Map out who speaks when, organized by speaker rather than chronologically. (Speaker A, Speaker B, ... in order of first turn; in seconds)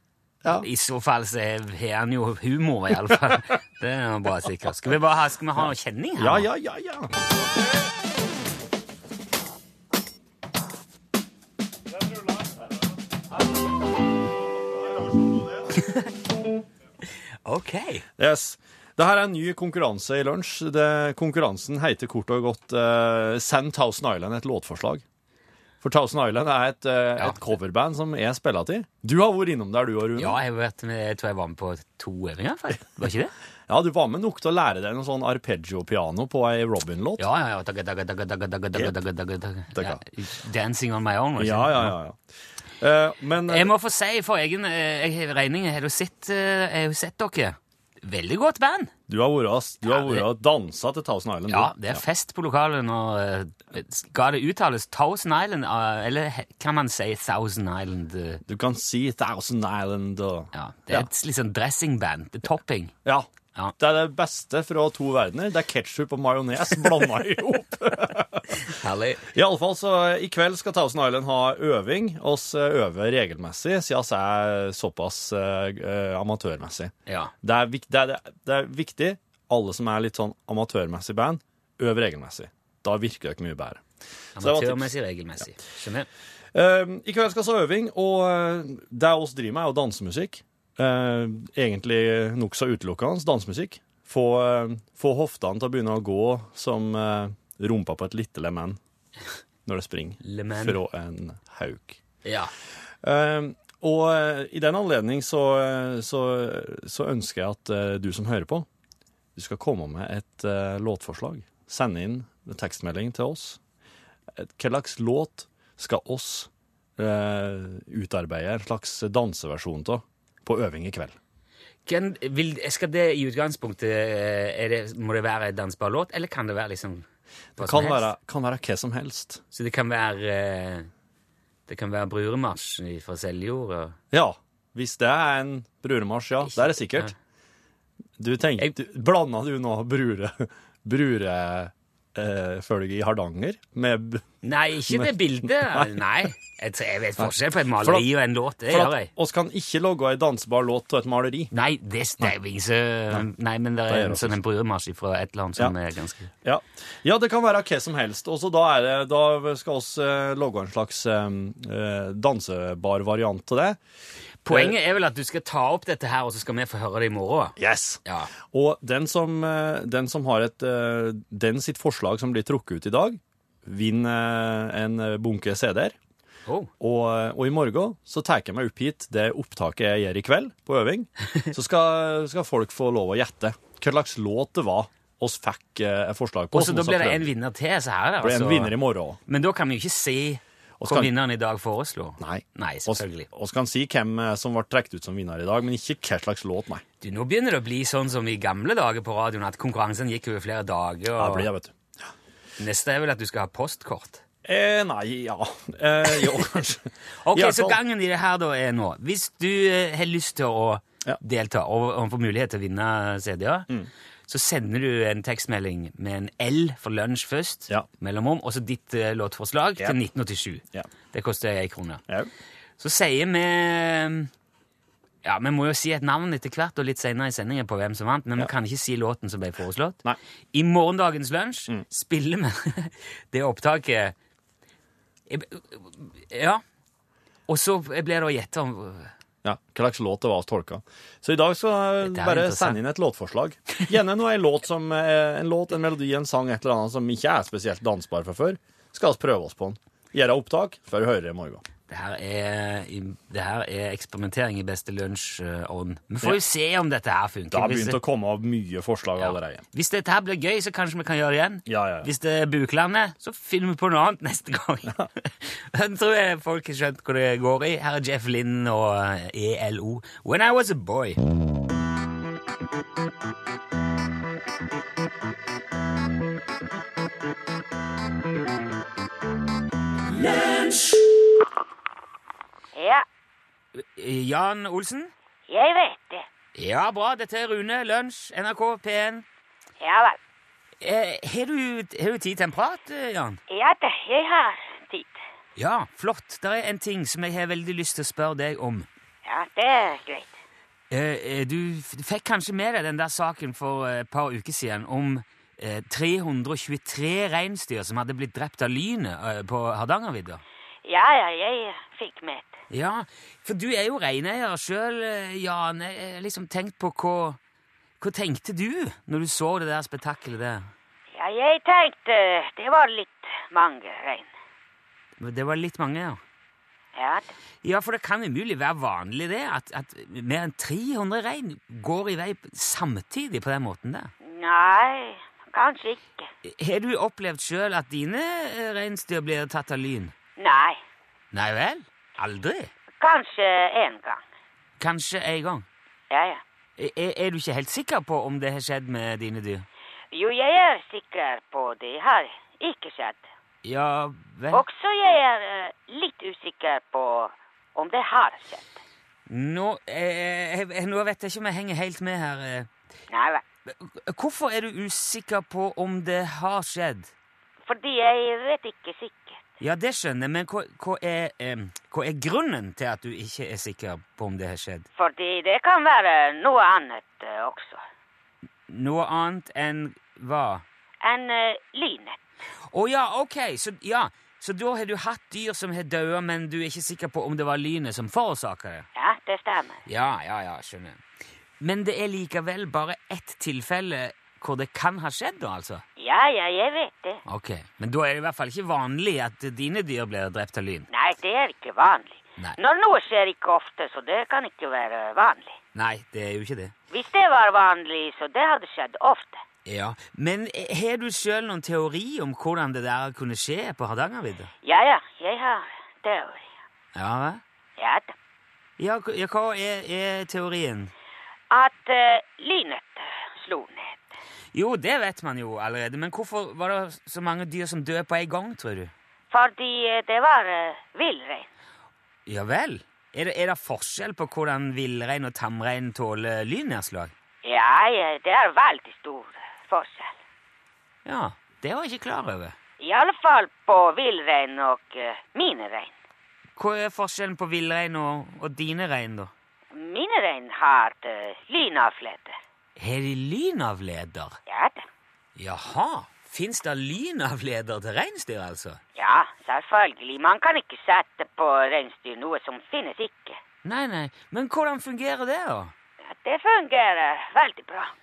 Speaker A: 0.5-6.5, 15.7-16.1, 17.4-18.0, 27.2-27.5, 30.2-33.3, 37.2-42.0, 43.5-48.9, 49.8-50.2, 51.5-58.4, 60.5-62.9, 68.5-69.2, 77.0-77.3, 84.3-86.1, 100.2-100.8, 102.2-102.5, 121.8-127.0, 127.6-128.1, 129.5-130.9, 131.7-134.0, 136.4-137.1, 144.4-149.1, 151.5-156.3, 164.4-168.3, 176.4-176.7, 186.5-193.3, 197.0-201.5, 202.6-204.2, 207.2-213.7, 214.3-222.0, 222.8-224.3, 225.2-230.0, 230.5-234.1, 235.3-236.6, 237.5-239.1, 242.0-242.8, 251.9-258.0, 259.2-271.2, 283.7-285.1, 286.6-289.2, 290.8-293.4, 295.6-298.9, 300.9-310.4, 312.7-317.4, 318.0-320.7, 325.2-326.2, 327.6-334.1, 336.4-340.1, 341.3-342.7, 344.8-345.6, 346.8-349.6, 353.6-354.6, 359.3-362.7, 363.7-367.1, 369.6-374.9, 378.7-380.6, 382.7-388.9, 389.9-391.0, 391.6-395.8, 397.2-400.9, 405.7-406.7, 409.6-414.5, 416.9-417.4, 418.8-420.9, 424.5-428.9, 432.2-437.1, 441.0-442.6, 446.6-449.3, 452.8-454.4, 455.4-458.8, 463.6-465.7
Speaker B: 6.2-7.1, 15.1-15.4, 18.2-25.0, 25.8-30.4, 33.7-37.2, 39.7-40.0, 41.4-42.2, 42.8-43.7, 49.1-52.0, 58.4-61.1, 63.0-68.6, 69.3-83.8, 84.4-84.9, 86.5-98.8, 99.7-102.0, 103.0-108.7, 109.3-113.6, 114.3-121.2, 127.6-129.4, 134.1-137.1, 138.2-144.2, 144.9-146.0, 147.2-148.1, 148.7-151.5, 153.9-154.4, 156.4-163.8, 164.5-164.8, 167.6-175.9, 176.8-187.3, 188.2-189.2, 190.8-191.1, 192.2-196.8, 201.2-201.8, 204.4-207.8, 239.4-251.6, 257.5-259.6, 261.6-262.1
Speaker C: 282.7-283.0, 285.5-286.2, 289.8-290.2, 293.5-295.2, 299.2-300.3, 310.8-312.6, 321.1-324.3, 326.9-327.3, 334.2-336.3, 340.4-340.8, 343.0-344.2, 346.1-346.4, 350.1-353.2, 354.5-358.8, 363.1-363.4, 367.7-369.4, 375.0-377.8, 381.0-382.2, 388.9-389.8, 396.0-397.2, 400.9-405.6, 406.9-409.4, 414.6-416.5, 417.8-418.1, 421.5-424.0, 429.3-431.5, 437.4-440.1, 442.8-445.9, 449.7-452.4, 454.5-454.8, 458.9-463.4, 466.1-467.9